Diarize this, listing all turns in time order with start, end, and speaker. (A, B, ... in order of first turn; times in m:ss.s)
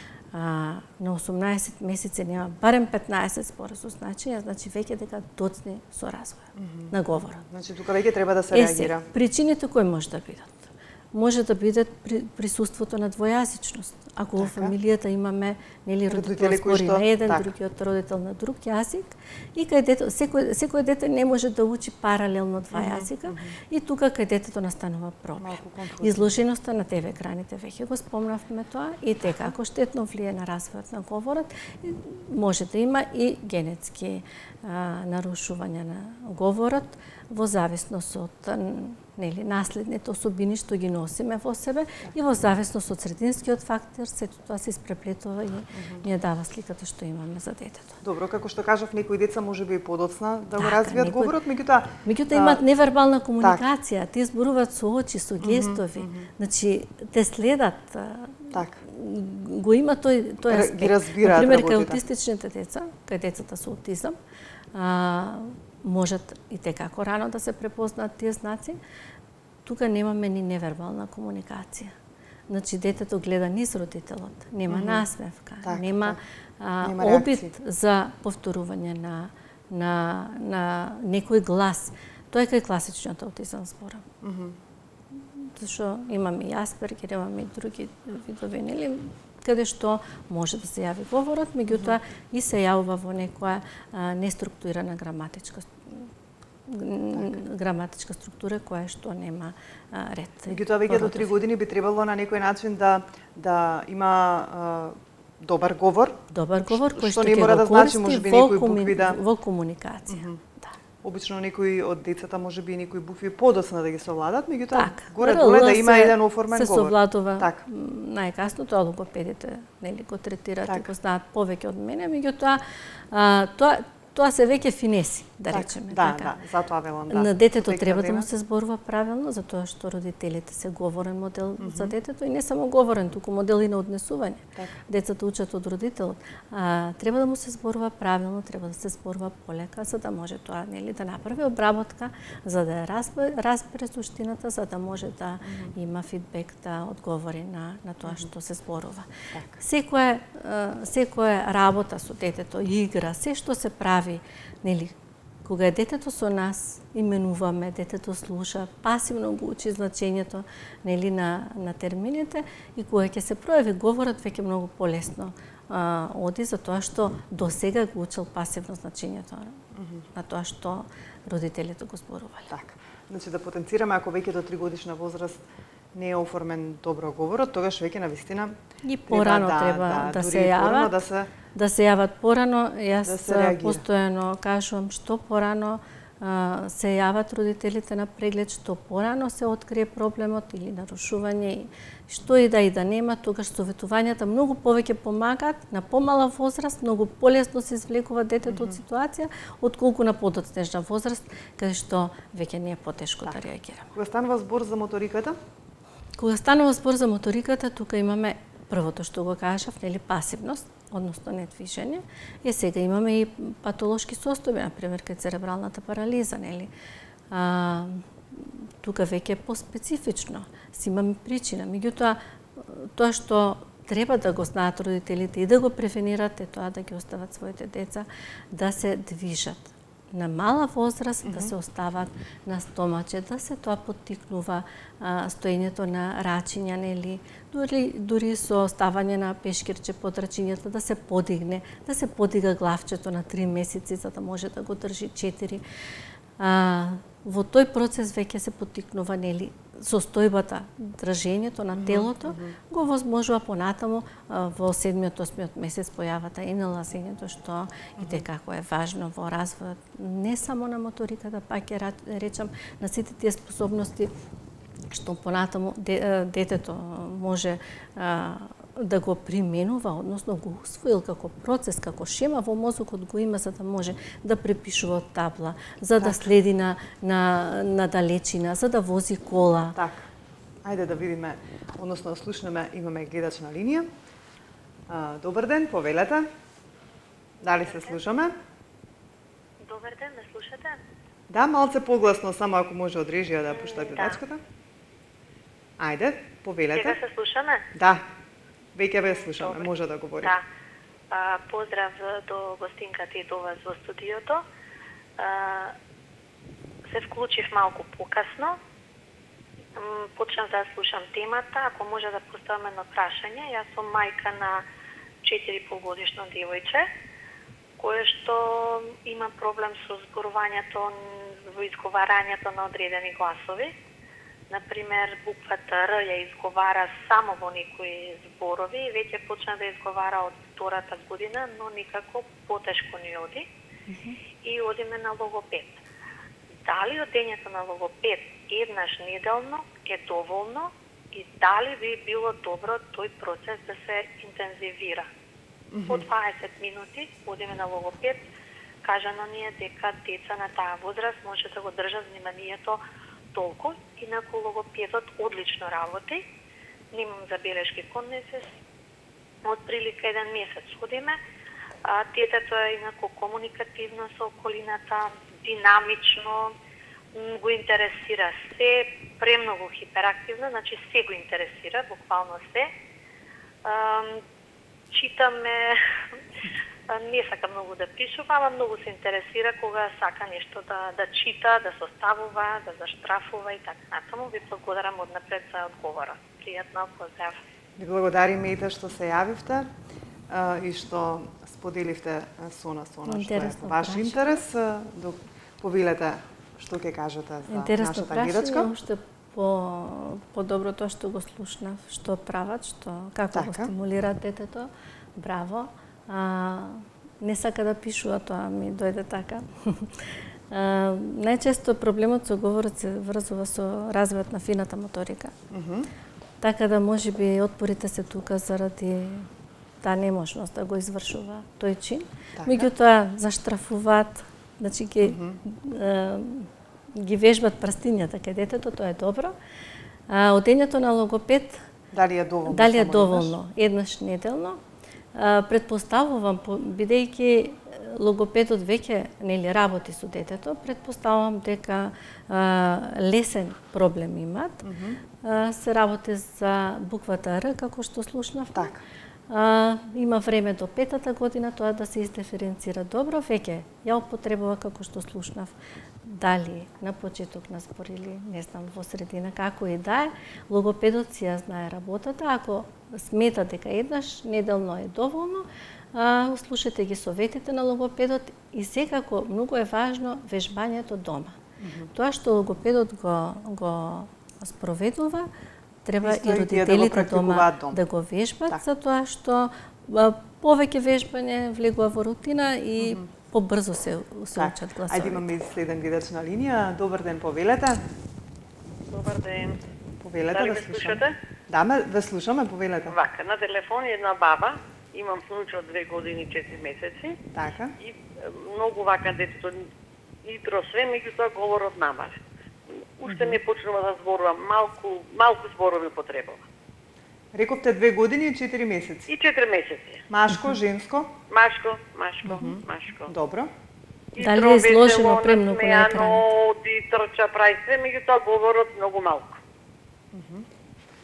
0:00.3-0:07.4 A
0:06.5-0:09.0 B
0:08.5-0:48.0 A
0:14.4-0:14.7 B
0:16.1-0:17.5 B
0:22.7-0:23.6 B
0:25.4-0:26.3 B
0:45.7-0:46.0 B
0:48.0-0:52.6 B
0:50.6-0:51.4 A
0:52.0-1:04.2 A
0:55.4-0:56.3 B
0:58.5-0:58.8 B
1:00.5-1:02.0 B
1:04.7-1:08.8 A
1:09.6-1:11.9 A
1:12.5-1:24.0 A
1:14.7-1:15.0 B
1:15.6-1:16.2 B
1:16.8-1:17.5 B
1:24.2-1:24.6 B
1:25.4-1:36.1 A
1:31.7-1:32.0 B
1:36.7-1:41.3 A
1:40.5-1:49.2 B
1:46.3-1:50.7 A
1:50.1-1:50.4 B
1:51.0-1:57.6 B
1:54.7-2:06.3 A
2:05.5-2:08.3 B
2:07.1-2:52.5 A
2:11.6-2:11.9 B
2:25.4-2:25.7 B
2:29.3-2:29.6 B
2:49.7-2:50.0 B
2:52.5-2:58.6 B
2:58.8-3:01.0 A
2:59.1-3:01.3 B
3:01.5-3:23.9 A
3:03.0-3:03.8 B
3:18.4-3:18.8 B
3:23.9-3:25.4 B
3:26.2-3:36.7 A
3:37.3-4:05.6 A
3:51.2-3:51.5 B
4:06.4-4:24.1 A
4:11.7-4:12.6 B
4:18.0-4:18.2 B
4:24.9-4:39.8 A
4:36.0-4:36.3 B
4:39.8-4:40.1 B
4:40.6-4:43.9 B
4:44.9-4:46.3 B
4:47.4-4:48.3 B
4:49.6-4:50.8 C
4:51.3-4:54.4 B
4:53.5-4:54.2 C
4:55.8-4:57.0 B
4:56.7-4:57.7 C
4:57.7-4:58.1 B
4:58.8-5:00.4 B
4:59.1-5:00.4 C
5:01.1-5:04.4 C
5:05.2-5:05.8 C
5:06.9-5:08.6 C
5:09.8-5:14.6 C
5:15.2-5:16.9 C
5:17.8-5:23.7 C
5:24.5-5:33.5 C
5:33.9-5:34.2 A
5:34.4-5:35.8 C
5:36.6-5:45.1 C
5:45.7-5:46.1 B
5:45.9-5:48.2 C
5:48.8-5:52.8 C
5:53.3-5:56.2 C
5:56.9-5:58.5 C
5:59.4-6:01.2 C
6:01.8-6:06.5 C
6:07.1-6:12.7 C
6:13.6-6:14.2 C
6:14.9-6:15.8 C
6:16.9-6:27.4 C
6:27.8-6:29.7 B
6:30.3-6:38.7 B
6:33.0-6:34.4 A
6:37.5-6:55.3 A
6:43.3-6:43.7 B
6:55.5-6:55.9 B
6:56.4-6:59.3 A
6:59.8-7:09.3 A
7:02.4-7:02.7 B
7:05.0-7:05.4 B
7:10.1-7:11.6 A
7:11.9-7:13.4 B
7:12.4-7:14.6 A
7:15.1-7:24.6 A
7:24.6-7:25.0 B
7:25.2-7:28.7 A
7:28.5-7:28.8 B
7:29.3-7:51.4 A
7:51.6-7:51.9 B
7:51.9-7:55.3 A
7:55.8-8:05.3 A
7:56.0-7:57.8 B
8:02.8-8:03.1 B
8:04.4-8:07.8 B
8:08.9-8:09.6 D
8:10.0-8:13.0 B
8:10.3-8:11.2 D
8:12.9-8:17.2 D
8:17.3-8:17.8 B
8:17.8-8:19.7 D
8:20.2-8:22.2 D
8:23.0-8:26.4 D
8:27.3-8:29.1 B
8:29.1-8:30.0 D
8:30.1-8:31.1 B
8:31.3-8:33.1 D
8:32.3-8:33.5 B
8:34.1-8:39.4 D
8:34.2-8:36.2 A
8:40.1-8:40.5 B